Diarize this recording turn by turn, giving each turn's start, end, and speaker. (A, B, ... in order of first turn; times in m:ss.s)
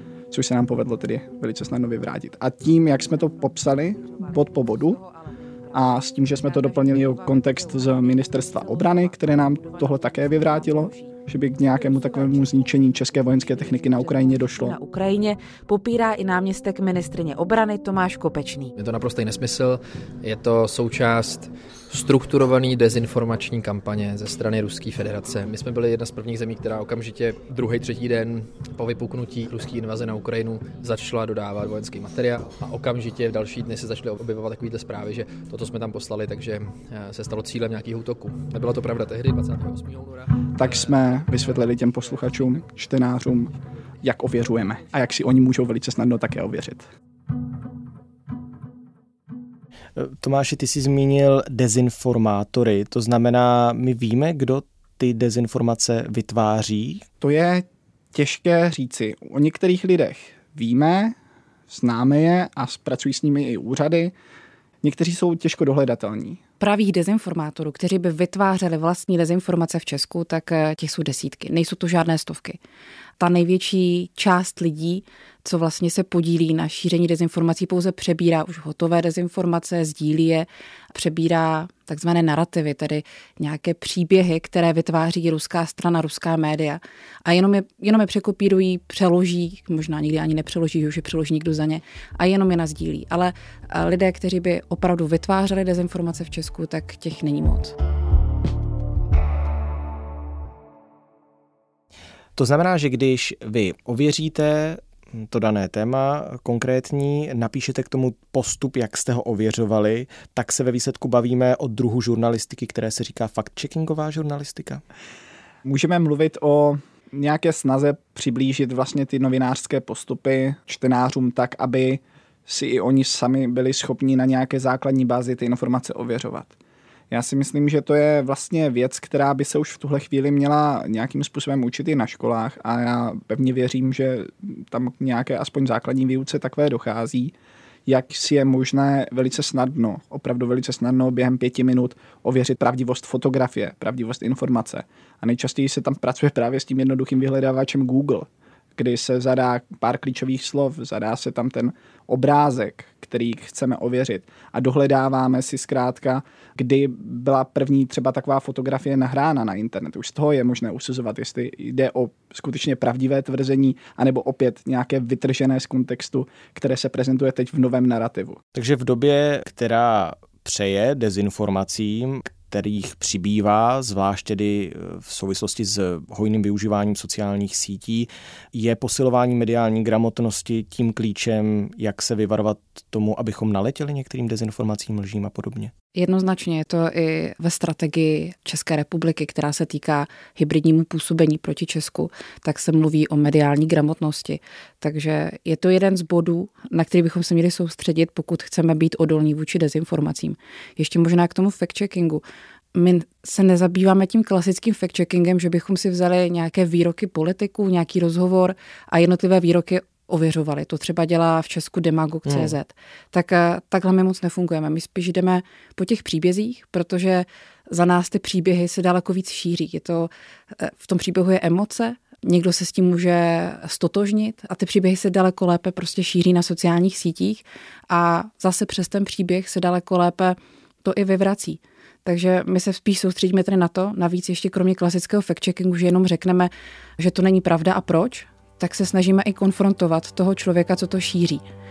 0:00.3-0:05.0 A
0:03.1-0:18.7 B
0:05.7-0:14.8 A
0:18.7-0:42.6 C
0:40.6-0:46.9 A
0:50.0-0:57.0 D
0:57.2-1:01.2 A
1:01.7-1:04.1 A
1:04.8-1:06.4 A
1:06.6-1:12.6 E
1:13.2-1:37.7 E
1:42.4-1:54.8 D
1:55.6-2:06.5 A
2:07.1-2:17.3 A
2:17.8-2:48.4 A
2:48.5-3:05.7 D
3:06.0-3:22.2 E
3:22.7-4:01.4 E
3:32.3-3:32.5 D